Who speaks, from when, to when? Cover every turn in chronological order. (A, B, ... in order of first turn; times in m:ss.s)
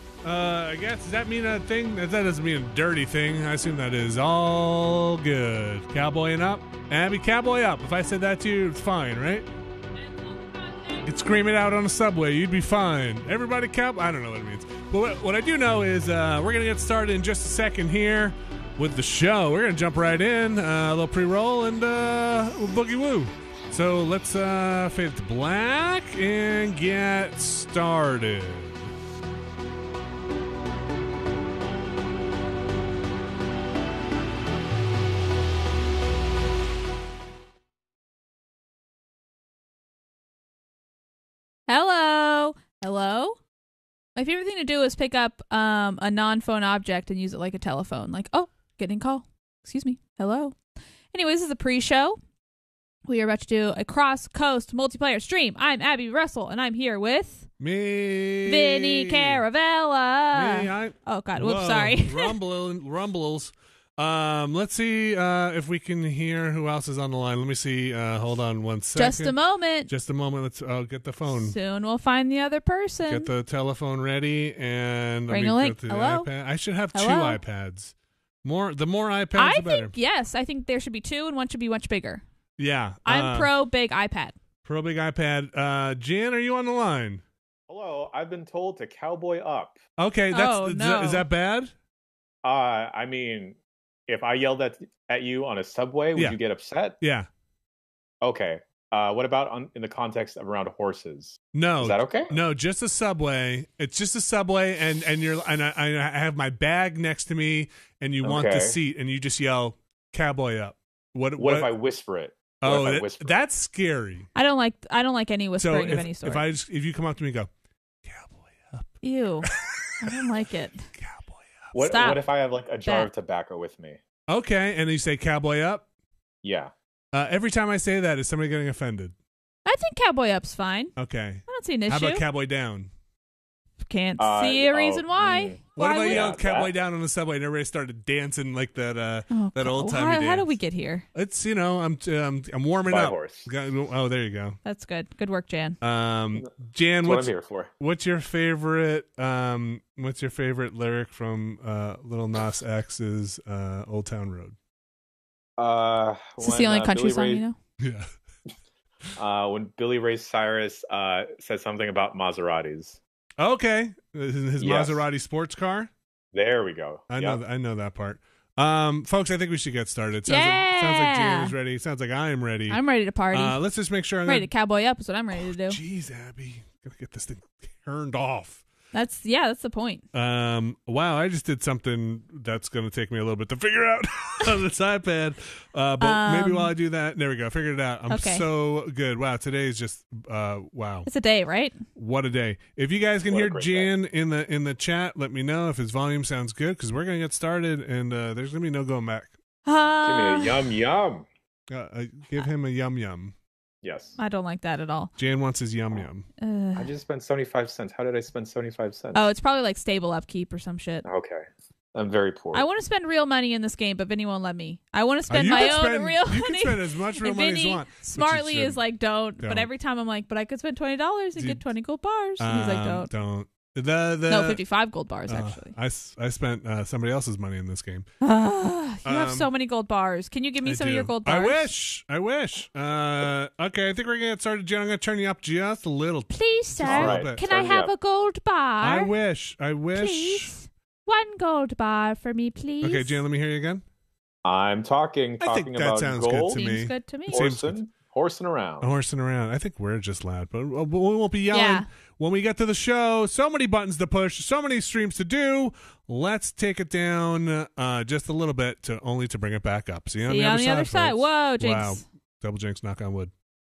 0:00.2-0:09.5 A
0:10.5-0:10.8 B
0:11.0-0:28.9 A
0:41.7-0:43.4 B
0:44.2-0:50.6 B
0:51.1-0:52.2 B
0:53.1-0:57.5 B
0:57.6-0:59.4 A
0:58.4-1:02.4 B
1:00.3-1:09.3 A
1:09.0-1:09.9 B
1:09.9-1:11.6 A
1:11.3-1:13.3 B
1:13.0-1:19.9 A
1:15.3-1:16.3 B
1:16.9-1:17.4 B
1:19.3-1:22.2 B
1:22.6-1:23.5 A
1:23.0-1:24.3 B
1:24.6-1:27.2 A
1:27.7-1:29.8 C
1:30.0-1:31.7 A
1:30.3-1:31.3 B
1:32.4-1:33.6 C
1:34.1-1:37.0 C
1:37.0-1:37.3 A
1:38.2-1:42.3 C
1:41.5-1:51.7 A
1:48.2-1:48.8 C
1:51.4-1:53.4 C
1:52.6-1:54.3 A
1:54.3-1:56.5 B
1:55.6-1:57.5 A
1:58.0-1:58.9 A
1:59.0-1:59.5 B
1:59.4-2:00.0 A
2:00.0-2:00.8 B
2:01.0-2:01.5 A
2:01.7-2:04.0 C
2:01.8-2:02.2 B
2:04.3-2:05.8 A
2:06.4-2:06.7 C
2:07.1-2:09.2 A
2:09.7-2:12.2 B
2:11.0-2:12.9 A
2:13.8-2:16.4 B
2:14.2-2:16.7 C
2:15.8-2:20.6 A
2:19.3-2:21.1 B
2:21.1-2:24.6 A
2:22.9-2:23.5 C
2:24.6-2:25.8 B
2:25.8-2:34.6 A
2:27.0-2:27.7 C
2:35.6-2:37.4 C
2:36.4-2:37.6 B
2:37.8-2:38.1 A
2:39.2-2:43.0 C
2:43.4-2:45.9 A
2:44.6-2:45.1 C
2:46.3-2:47.4 C
2:47.1-2:52.8 A
2:50.3-2:51.5 B
2:52.7-2:53.6 B
2:53.3-2:54.5 A
2:54.2-2:55.8 B
2:55.4-2:58.7 A
2:58.9-3:00.0 B
3:00.1-3:11.1 A
3:06.0-3:06.7 B
3:08.1-3:08.5 B
3:11.1-3:11.8 B
3:11.9-3:19.3 A
3:13.3-3:13.9 C
3:19.6-3:20.8 B
3:20.0-3:21.2 C
3:21.7-3:23.3 A
3:23.8-3:24.2 C
3:24.2-3:25.1 B
3:25.2-3:26.3 A
3:26.4-3:26.9 B
3:26.8-3:29.3 C
3:29.1-3:31.1 B
3:31.0-3:31.4 C
3:31.9-3:32.7 C
3:32.5-3:43.1 B
3:35.3-3:38.8 A
3:39.4-3:39.7 A
3:41.4-3:41.6 A
3:42.4-3:44.6 A
3:44.3-3:45.8 B
3:45.3-3:48.1 A
3:48.2-3:51.7 B
3:49.0-3:49.5 A
3:50.6-3:57.5 A
3:56.3-3:59.1 B
3:56.8-3:57.9 C
3:58.8-4:00.6 A
3:59.9-4:03.2 B
4:02.8-4:03.8 A
4:04.4-4:06.6 C
4:05.4-4:07.8 A
4:06.5-4:07.4 B
4:07.3-4:08.9 C
4:08.8-4:23.3 A
4:11.5-4:11.8 B
4:20.2-4:22.0 B